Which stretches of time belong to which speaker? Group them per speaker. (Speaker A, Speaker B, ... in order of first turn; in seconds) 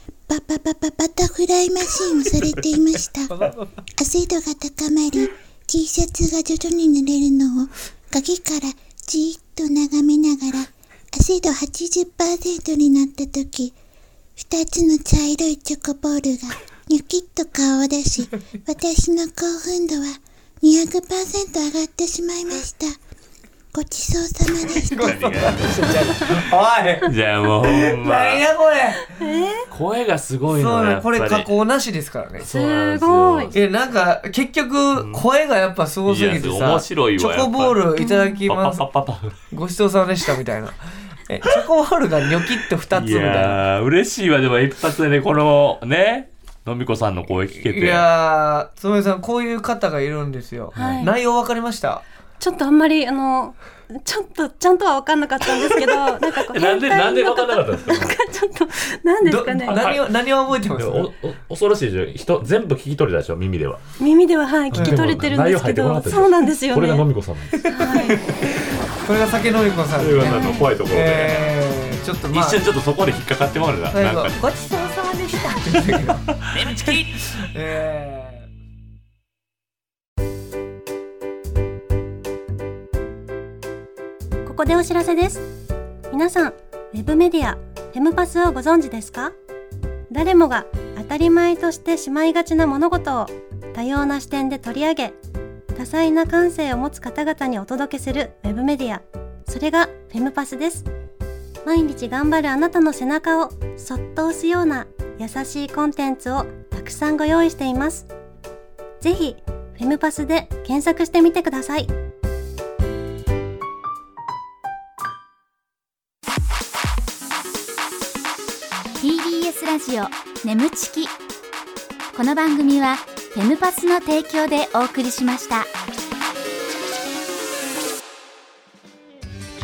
Speaker A: 0.3-3.3, 4.0-13.8, 14.4-23.0, 23.7-25.2
Speaker B: 3.3-3.8, 24.8-29.2, 30.5-32.5, 33.5-38.9, 39.5-43.6, 47.5-52.0, 59.2-61.1, 67.6-72.6, 73.9-78.5
Speaker C: 24.9-26.5, 27.0-28.4, 29.7-31.5, 32.4-33.6, 35.0-35.2, 36.1-39.4, 42.9-48.1, 50.8-51.1, 56.2-58.2, 59.7-60.0, 60.8-63.8, 64.7-68.2, 70.0-71.5, 72.3-74.4, 75.7-77.2
Speaker D: 29.1-29.7, 32.5-33.5, 38.0-38.4, 50.8-51.1, 52.4-59.9, 64.0-67.0, 67.7-68.2, 70.2-70.7, 84.5-85.5, 86.1-89.3, 90.1-95.2, 95.8-100.9, 101.7-108.1, 109.0-111.9
Speaker E: 119.0-121.1, 122.1-125.7